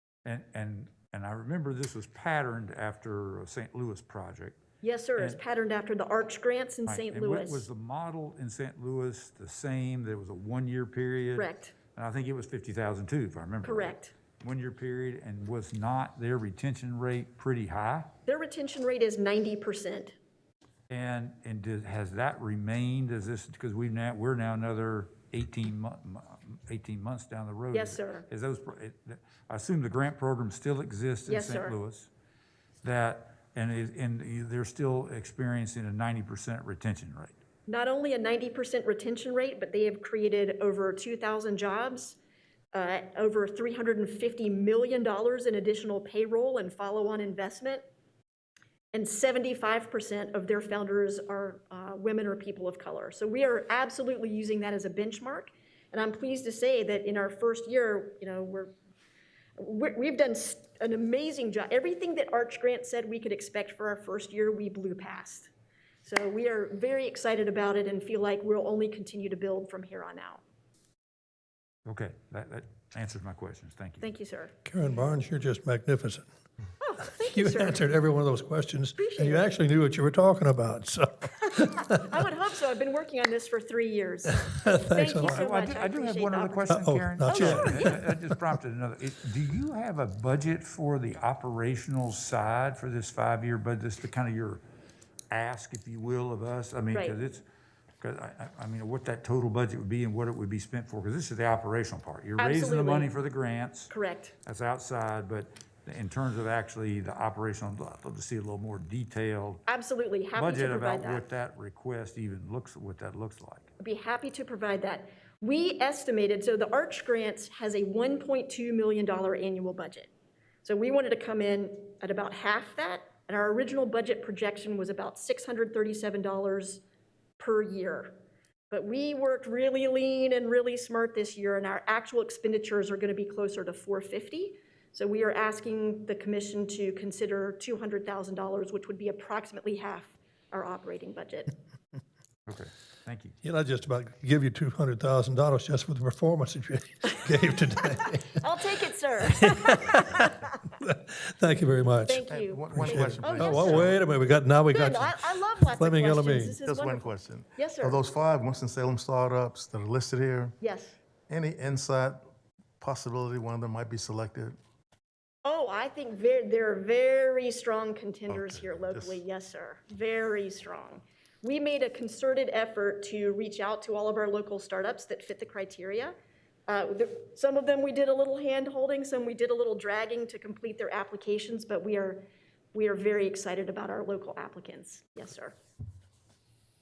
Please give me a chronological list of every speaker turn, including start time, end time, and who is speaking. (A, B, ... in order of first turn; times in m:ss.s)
0:00.2-0:04.6 A
0:04.8-0:07.7 B
0:06.9-0:18.1 A
0:11.4-0:11.7 B
0:13.6-0:14.1 B
0:18.2-0:20.1 B
0:20.9-0:32.1 A
0:27.7-0:28.3 B
0:31.3-0:31.8 B
0:32.8-0:37.4 A
0:37.7-0:42.2 B
0:42.7-0:47.8 B
0:48.9-0:58.7 B
0:59.6-1:05.5 B
1:06.0-1:10.4 B
1:11.9-1:14.0 A
1:14.0-1:14.5 B
1:14.6-1:16.3 C
1:16.8-1:17.9 B
1:17.2-1:22.1 C
1:19.0-1:19.5 B
1:21.9-1:28.0 B
1:24.5-1:25.5 C
1:25.2-1:34.6 A
1:26.7-1:28.0 C
1:35.3-1:37.4 A
1:36.9-1:37.2 B
1:38.0-1:43.9 A
1:42.4-1:43.1 B
1:43.9-1:44.3 B
1:44.4-1:49.6 A
1:49.7-1:51.2 B
1:50.3-1:53.7 A
1:53.8-2:00.1 B
2:00.6-2:06.8 B
2:07.4-2:08.2 B
2:08.7-2:21.5 B
2:22.5-2:23.3 A
2:23.4-2:28.4 C
2:28.3-2:30.5 B
2:29.4-2:36.6 C
2:32.1-2:34.0 B
2:32.2-2:34.0 D
2:34.7-2:38.0 B
2:36.6-2:40.6 D
2:40.6-2:40.9 B
2:41.3-2:42.2 D
2:42.8-2:44.6 D
2:45.4-2:56.1 B
2:48.3-2:49.2 D
2:56.7-3:05.6 B